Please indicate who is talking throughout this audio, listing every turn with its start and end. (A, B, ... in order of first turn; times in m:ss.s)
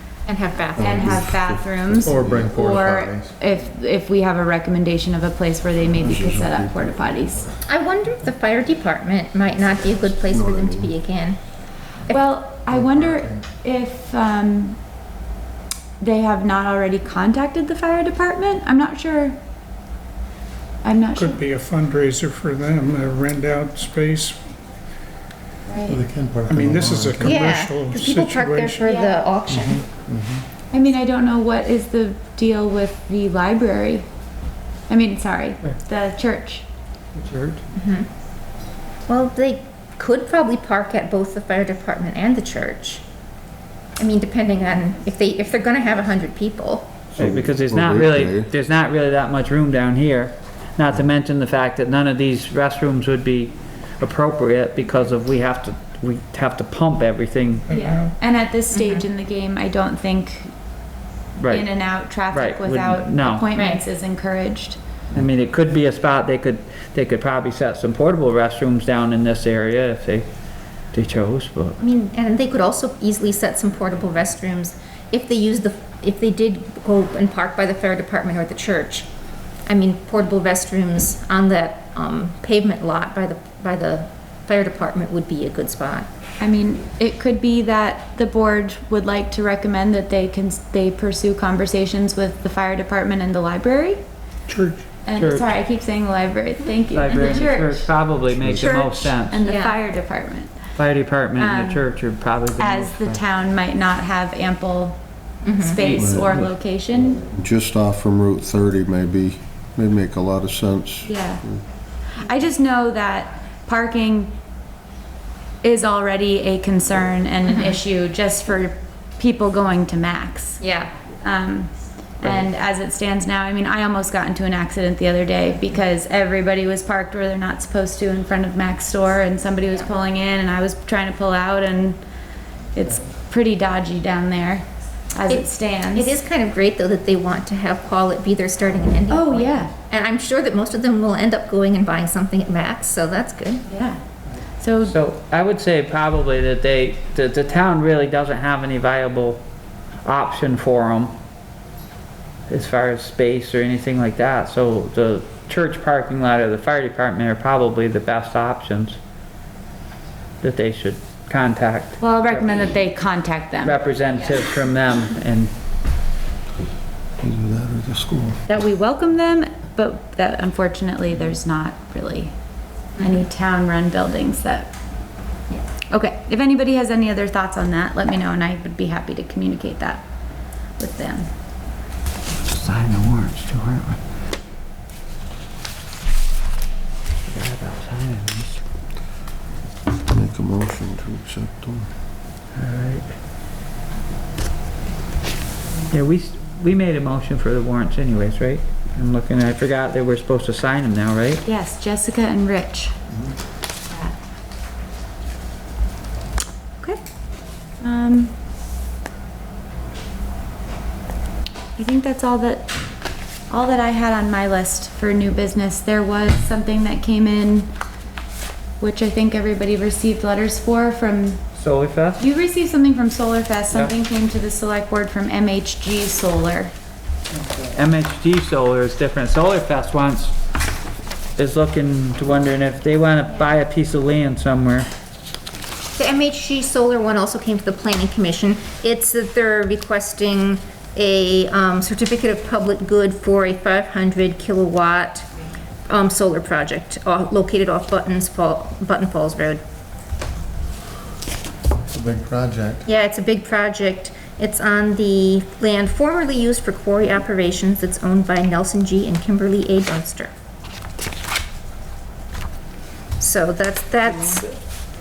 0:00.2-0:01.3 A
0:00.8-0:07.4 B
0:00.8-0:02.5 C
0:01.9-0:03.3 D
0:06.0-0:07.6 D
0:06.1-0:06.4 C
0:07.7-0:11.4 A
0:10.3-0:10.9 C
0:12.1-0:14.8 B
0:12.7-0:13.4 D
0:16.0-0:19.4 B
0:20.8-0:21.4 B
0:21.2-0:24.4 E
0:25.7-0:26.0 B
0:25.9-0:27.5 D
0:26.5-0:28.8 E
0:27.2-0:29.9 A
0:28.8-0:29.2 B
0:30.0-0:30.4 D
0:30.7-0:34.1 B
0:34.9-0:36.6 B
0:37.2-0:37.6 F
0:37.7-0:38.1 A
0:39.1-0:43.0 A
0:44.0-0:47.0 A
0:47.1-0:57.7 F
0:47.2-0:48.5 C
0:57.7-1:00.5 B
0:58.7-0:59.0 A
1:01.4-1:01.7 F
1:01.5-1:04.8 B
1:02.3-1:03.4 F
1:03.5-1:03.8 A
1:05.1-1:10.3 F
1:10.9-1:11.8 F
1:11.8-1:19.1 A
1:19.6-1:26.1 A
1:26.4-1:34.0 B
1:34.5-1:34.8 E
1:35.0-1:37.9 B
1:35.1-1:35.4 F
1:36.9-1:39.4 F
1:38.4-1:39.8 A
1:39.2-1:40.6 B
1:40.8-1:43.2 F
1:41.4-1:41.8 B
1:42.6-1:45.0 B
1:45.4-1:45.8 A
1:45.6-1:47.2 B
1:45.8-1:46.5 F
1:46.0-1:46.3 C
1:47.3-1:51.6 C
1:51.0-1:51.4 B
1:52.1-1:54.3 B
1:55.6-2:00.6 B
1:57.5-1:57.7 A
2:00.6-2:00.9 A
2:01.2-2:12.0 B
2:12.7-2:16.2 B
2:15.3-2:23.6 A
2:19.1-2:19.7 B
2:23.7-2:24.0 B
2:24.6-2:24.9 B
2:24.8-2:29.4 F
2:30.0-2:31.1 F
2:32.5-2:39.0 F
2:40.4-2:42.7 F
2:42.0-2:43.8 B
2:43.6-2:45.5 F
2:47.2-2:48.4 C
2:48.5-2:52.3 B
2:53.0-2:54.7 B
2:55.9-3:00.0 B
3:00.8-3:01.3 B
3:02.4-3:04.0 F
3:07.2-3:08.6 F
3:10.1-3:11.9 C
3:12.5-3:13.1 F
3:15.9-3:21.4 F
3:21.4-3:23.0 B
3:27.8-3:28.3 B
3:31.8-3:32.7 B
3:33.5-3:37.7 B
3:38.8-3:41.4 B
3:41.6-3:42.2 F
3:42.2-3:46.7 B
3:47.7-3:50.3 F
3:51.4-3:54.9 F
3:56.0-4:05.3 A
4:05.9-4:09.6 A
4:11.9-4:12.8 D
4:12.8-4:20.3 A
4:23.2-4:24.5 A